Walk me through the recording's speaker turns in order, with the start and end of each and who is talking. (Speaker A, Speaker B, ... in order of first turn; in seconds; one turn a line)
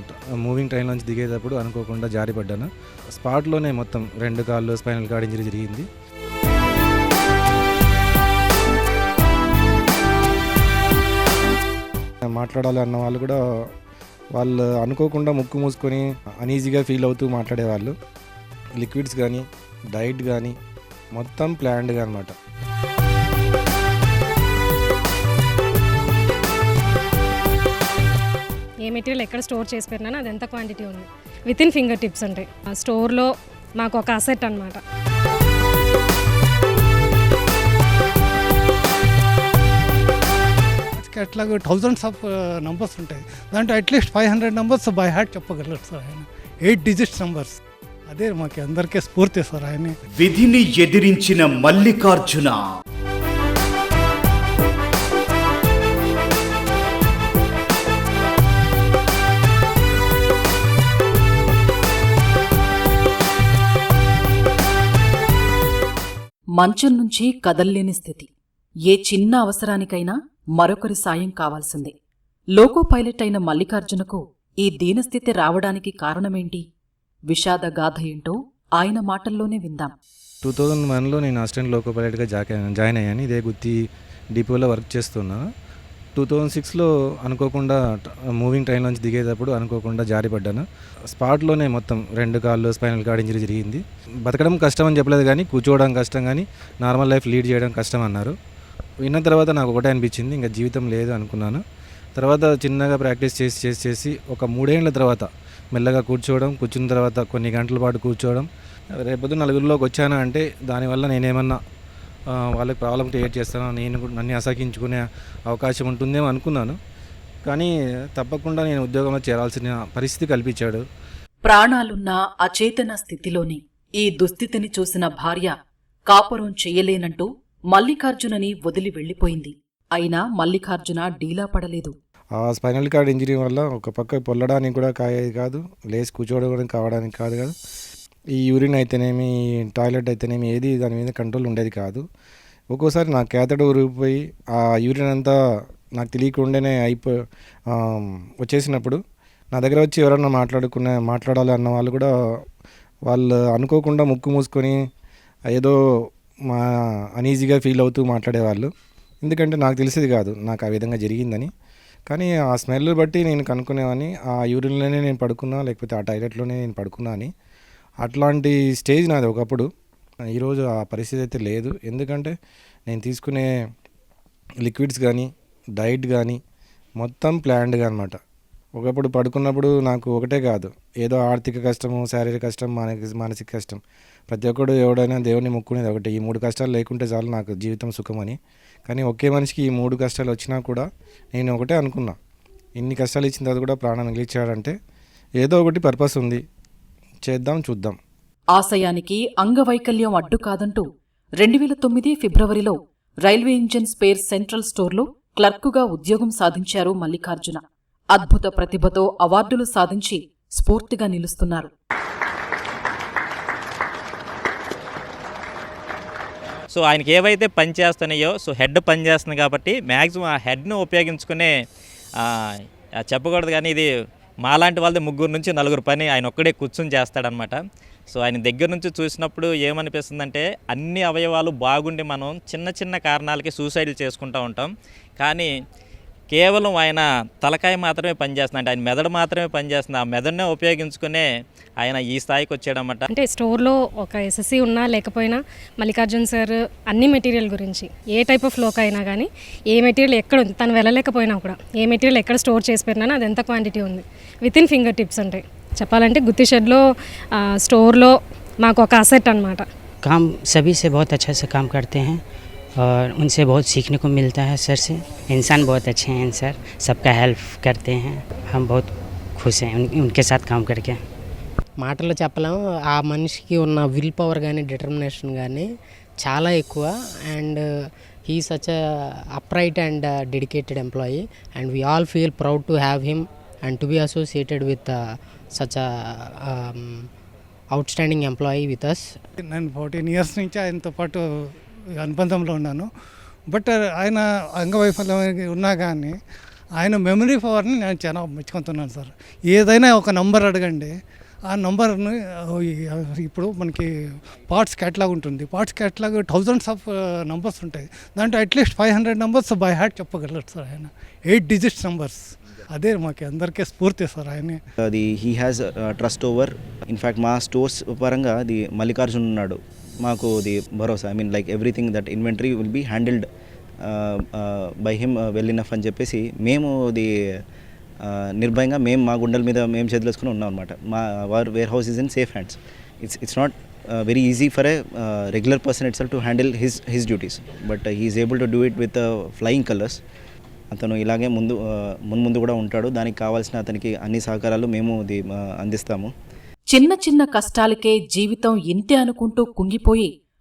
Speaker A: 0.4-5.8
Speaker A: 12.2-13.4
Speaker A: 14.4-17.9
Speaker A: 18.8-20.6
Speaker A: 21.2-22.4
Speaker B: 28.8-34.8
Speaker C: 41.0-47.5
Speaker C: 48.1-49.9
Speaker D: 50.2-52.7
Speaker E: 66.6-68.3
Speaker E: 68.9-71.9
Speaker E: 72.5-76.6
Speaker E: 77.3-79.9
Speaker A: 80.4-83.8
Speaker A: 84.3-85.4
Speaker A: 86.2-98.3
Speaker A: 99.0-101.6
Speaker A: 102.2-111.6
Speaker A: 112.3-116.8
Speaker A: 117.5-120.8
Speaker E: 121.4-125.5
Speaker E: 126.1-131.9
Speaker A: 132.4-137.5
Speaker A: 138.4-142.0
Speaker A: 142.7-145.3
Speaker A: 146.0-147.2
Speaker A: 147.7-149.0
Speaker A: 149.5-152.1
Speaker A: 153.1-154.8
Speaker A: 156.5-158.7
Speaker A: 159.2-161.5
Speaker A: 162.1-167.3
Speaker A: 168.0-169.7
Speaker A: 170.3-172.3
Speaker A: 172.9-173.5
Speaker A: 174.6-176.4
Speaker A: 177.0-178.2
Speaker A: 178.8-188.4
Speaker A: 188.9-192.2
Speaker A: 192.8-194.7
Speaker A: 195.4-196.4
Speaker A: 197.3-198.0
Speaker E: 198.6-200.8
Speaker E: 201.4-207.6
Speaker E: 208.1-211.7
Speaker F: 216.7-221.5
Speaker F: 222.2-223.9
Speaker F: 224.4-227.6
Speaker F: 228.1-235.5
Speaker F: 236.3-241.3
Speaker F: 241.8-243.1
Speaker B: 243.1-259.6
Speaker G: 260.0-262.2
Speaker G: 262.8-271.0
Speaker H: 271.8-275.7
Speaker H: 276.2-277.6
Speaker H: 278.3-285.0
Speaker H: 285.5-287.0
Speaker H: 287.7-289.1
Speaker C: 289.4-292.9
Speaker C: 293.5-296.1
Speaker C: 296.8-300.9
Speaker C: 301.5-303.9
Speaker C: 304.5-314.6
Speaker I: 314.9-323.3
Speaker I: 323.8-327.1
Speaker I: 328.0-340.0
Speaker I: 340.7-346.1
Speaker E: 346.7-350.1